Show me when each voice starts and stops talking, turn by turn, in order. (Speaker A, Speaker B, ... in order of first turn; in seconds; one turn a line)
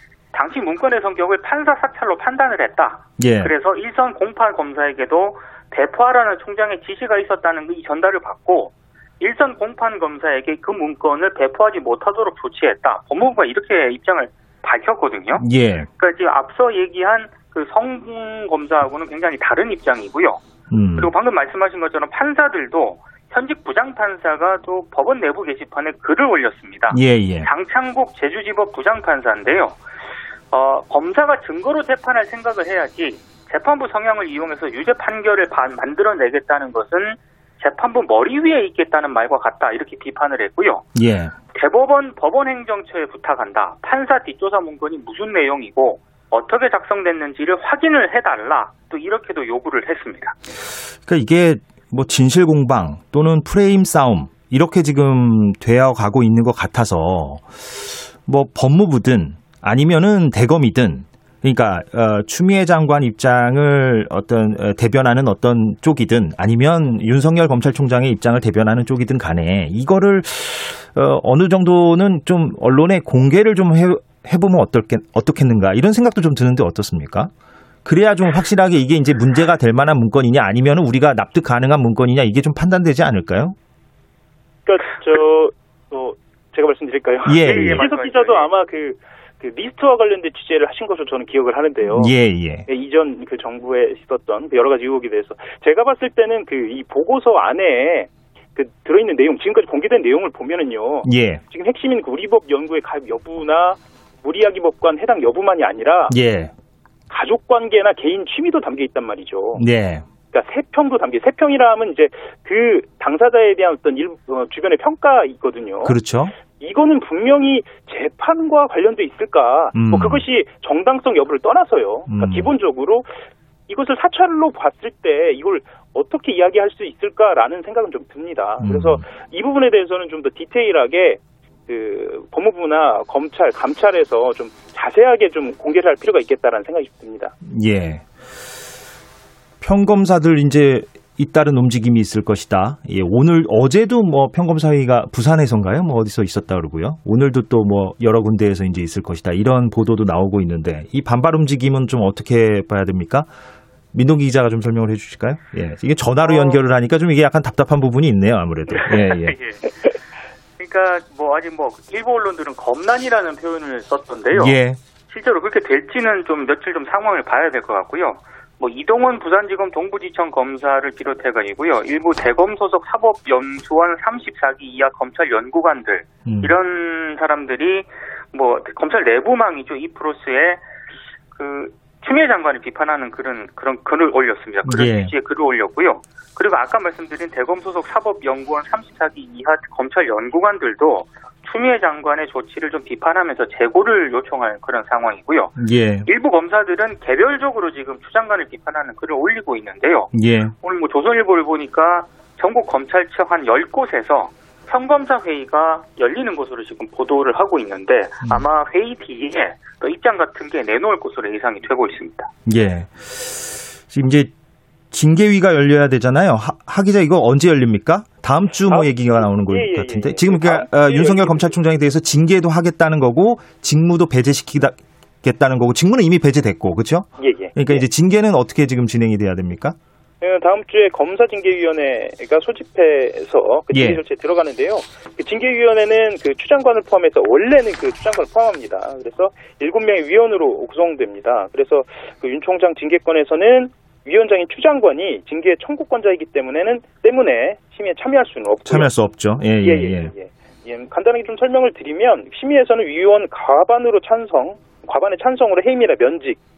Speaker A: 0.3-15.4
Speaker B: 3.2-3.5
Speaker B: 15.4-15.9
Speaker A: 16.0-20.4
Speaker B: 20.7-21.1
Speaker A: 21.0-29.8
Speaker B: 26.9-27.5
Speaker A: 30.5-40.9
Speaker B: 40.9-41.3
Speaker A: 41.5-50.3
Speaker B: 51.0-77.3
Speaker B: 77.8-83.5
Speaker C: 84.7-92.1
Speaker B: 87.2-87.8
Speaker A: 87.4-88.5
Speaker B: 92.0-92.7
Speaker C: 92.7-106.1
Speaker B: 101.0-101.4
Speaker B: 106.1-106.5
Speaker C: 107.1-109.6
Speaker B: 109.5-110.0
Speaker C: 110.3-116.0
Speaker B: 115.8-116.3
Speaker C: 116.6-123.1
Speaker B: 119.7-120.2
Speaker B: 122.1-122.5
Speaker C: 123.7-137.3
Speaker B: 128.6-129.0
Speaker B: 137.4-138.1
Speaker B: 139.6-153.3
Speaker B: 153.9-159.4
Speaker A: 158.8-159.7
Speaker A: 160.6-164.6
Speaker B: 164.3-164.8
Speaker A: 165.1-180.6
Speaker B: 176.2-176.6
Speaker A: 181.3-212.3
Speaker B: 184.6-185.1
Speaker B: 195.6-196.1
Speaker B: 200.1-200.5
Speaker B: 212.4-214.3
Speaker B: 214.9-229.8
Speaker C: 218.7-221.5
Speaker C: 227.2-227.8
Speaker C: 230.2-248.9
Speaker B: 233.7-234.0
Speaker B: 248.6-250.1
Speaker C: 249.6-256.4